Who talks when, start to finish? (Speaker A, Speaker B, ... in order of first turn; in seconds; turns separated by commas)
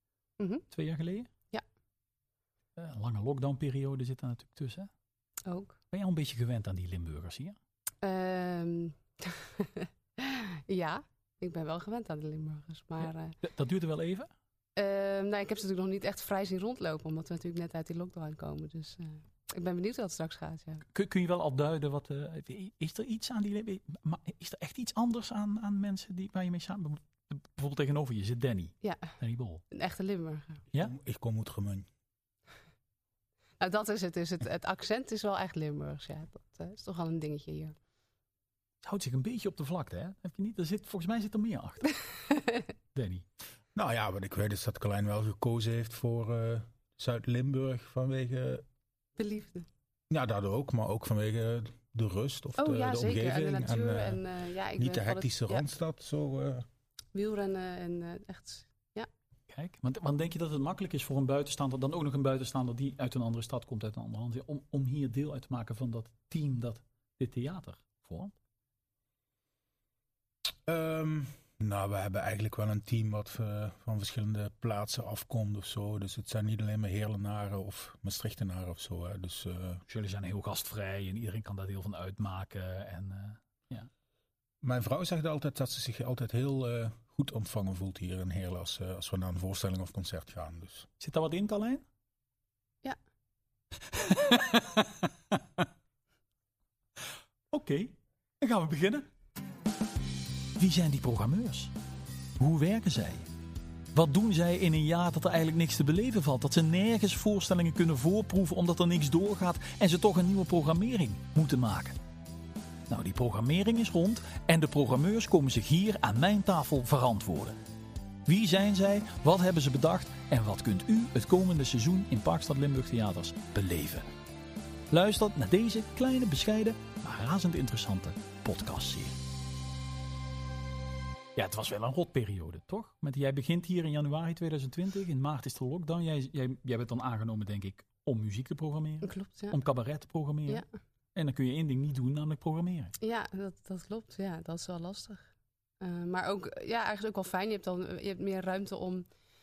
Speaker A: 0.4-0.6, Speaker B: 0.7-1.3, Speaker B: 2.8-4.9, Speaker A: 5.5-5.8, Speaker B: 5.9-7.6, Speaker A: 8.0-13.4, Speaker B: 13.4-14.3, Speaker A: 14.8-20.9, Speaker B: 20.9-29.6, Speaker A: 28.8-29.1, Speaker A: 29.7-30.6, Speaker C: 30.8-31.9, Speaker A: 33.6-37.8, Speaker B: 38.8-42.0, Speaker A: 42.3-42.6, Speaker B: 42.9-43.2, Speaker C: 43.8-48.6, Speaker A: 49.2-49.7, Speaker C: 50.1-54.2, Speaker A: 52.6-55.7, Speaker C: 54.8-56.7, Speaker A: 57.1-59.1, Speaker B: 59.5-68.3, Speaker C: 70.7-79.8, Speaker B: 79.9-83.9, Speaker C: 84.6-90.9, Speaker B: 91.0-91.8, Speaker B: 93.9-95.7, Speaker B: 97.5-99.1, Speaker B: 100.6-101.7, Speaker B: 102.4-103.3, Speaker B: 103.9-112.0, Speaker B: 112.9-117.6, Speaker B: 118.3-124.1, Speaker B: 124.9-129.2, Speaker B: 131.4-140.6, Speaker A: 139.0-139.6, Speaker B: 141.2-142.9, Speaker A: 143.0-145.3, Speaker A: 145.8-149.1